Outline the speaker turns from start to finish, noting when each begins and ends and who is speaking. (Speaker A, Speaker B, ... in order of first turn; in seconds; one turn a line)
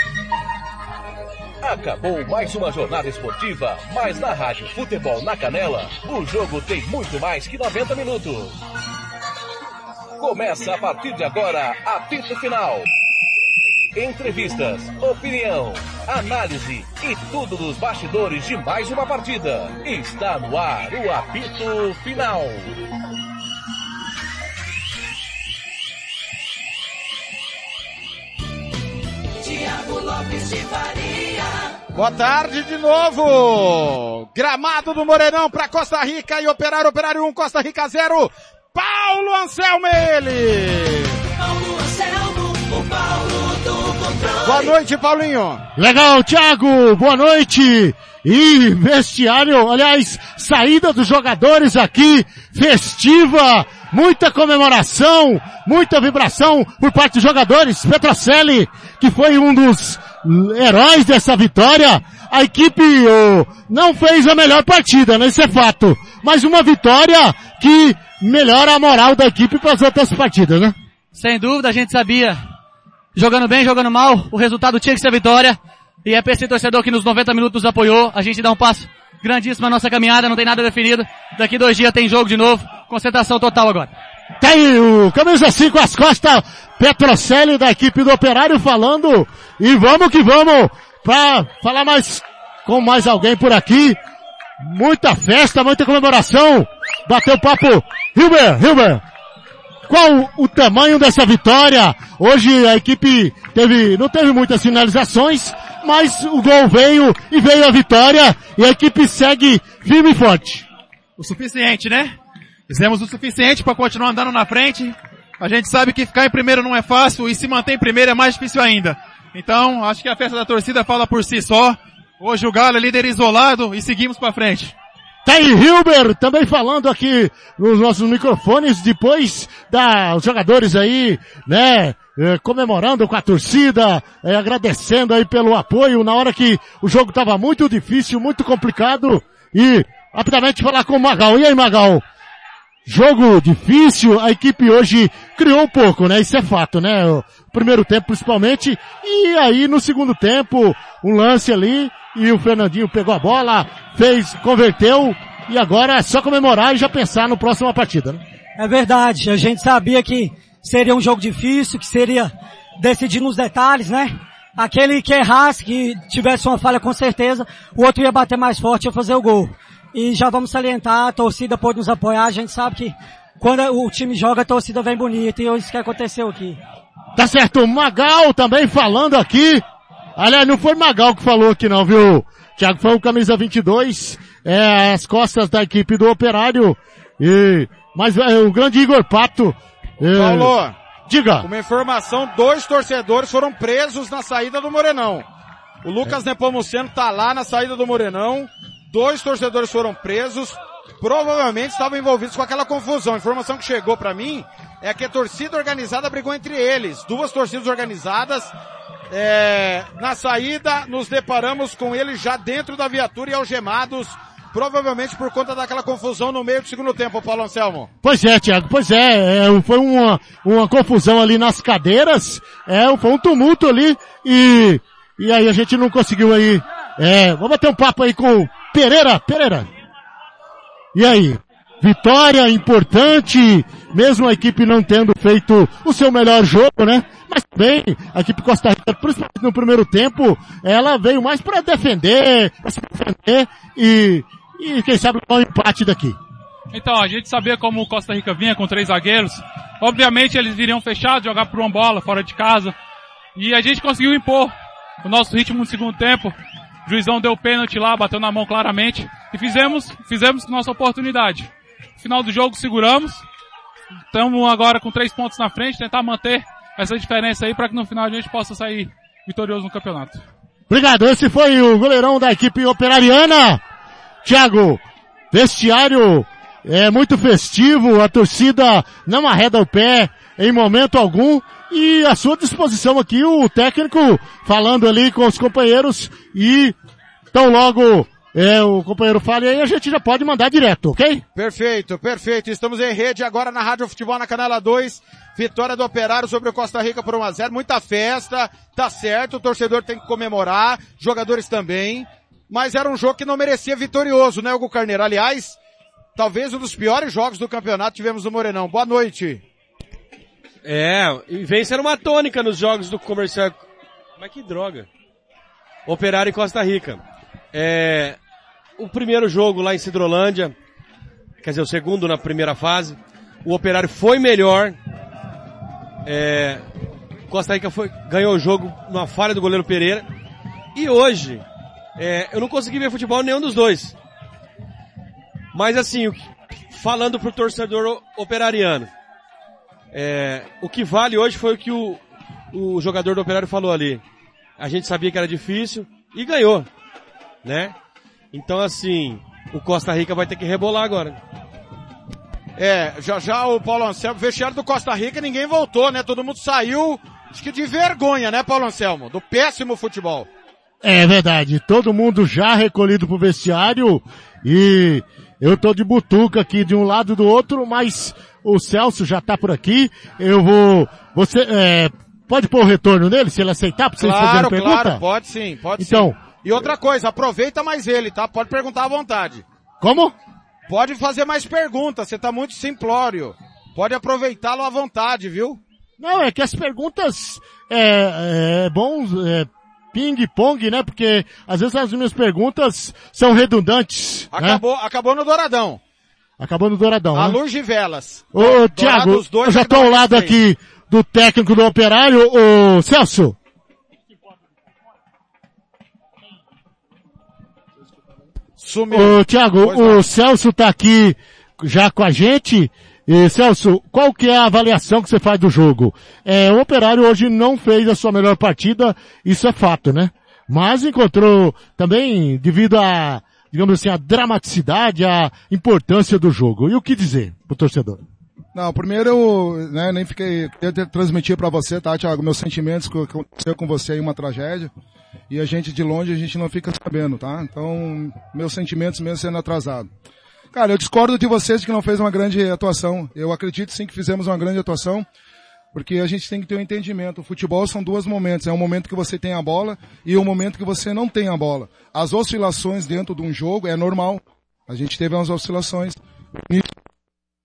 Speaker A: 1.6-8.6
Speaker A: 10.2-12.9
Speaker A: 13.9-22.8
Speaker B: 29.4-31.5
Speaker C: 31.9-41.2
Speaker B: 41.4-44.4
Speaker C: 44.3-45.6
Speaker D: 45.8-70.8
Speaker E: 71.1-72.4
Speaker E: 73.1-83.9
Speaker D: 84.4-94.0
Speaker D: 94.6-99.0
Speaker D: 99.9-110.7
Speaker F: 111.2-112.2
Speaker F: 112.7-124.7
Speaker D: 125.2-142.0
Speaker D: 142.8-158.2
Speaker G: 158.6-176.6
Speaker D: 177.1-179.6
Speaker D: 180.2-190.5
Speaker C: 190.1-190.8
Speaker D: 191.1-191.5
Speaker C: 191.4-195.3
Speaker C: 195.8-208.5
Speaker C: 209.1-217.9
Speaker D: 218.0-229.7
Speaker D: 230.9-246.2
Speaker H: 246.7-252.8
Speaker H: 253.3-263.2
Speaker H: 264.1-270.2
Speaker D: 270.7-273.6
Speaker D: 274.2-286.7
Speaker D: 287.3-291.2
Speaker C: 291.3-305.6
Speaker C: 306.1-309.4
Speaker I: 310.6-313.6
Speaker I: 314.2-314.9
Speaker I: 315.9-317.0
Speaker I: 317.5-318.2
Speaker I: 318.8-320.5
Speaker I: 321.4-324.8
Speaker I: 326.0-326.6
Speaker I: 327.3-330.1
Speaker I: 330.7-331.4
Speaker I: 332.0-333.9
Speaker I: 335.5-338.9
Speaker I: 339.9-344.0
Speaker I: 344.6-346.7
Speaker I: 347.4-347.7
Speaker I: 348.3-351.2
Speaker C: 352.6-360.3
Speaker D: 360.8-375.0
Speaker C: 374.0-379.4
Speaker D: 375.8-376.1
Speaker D: 379.8-380.1
Speaker C: 380.7-385.6
Speaker D: 386.0-394.6
Speaker C: 394.3-395.8
Speaker D: 396.4-397.4
Speaker C: 397.1-400.4
Speaker D: 398.3-403.4
Speaker C: 408.6-410.1
Speaker D: 408.9-428.0
Speaker J: 428.5-434.7
Speaker J: 435.3-439.9
Speaker J: 440.5-445.1
Speaker J: 445.7-456.7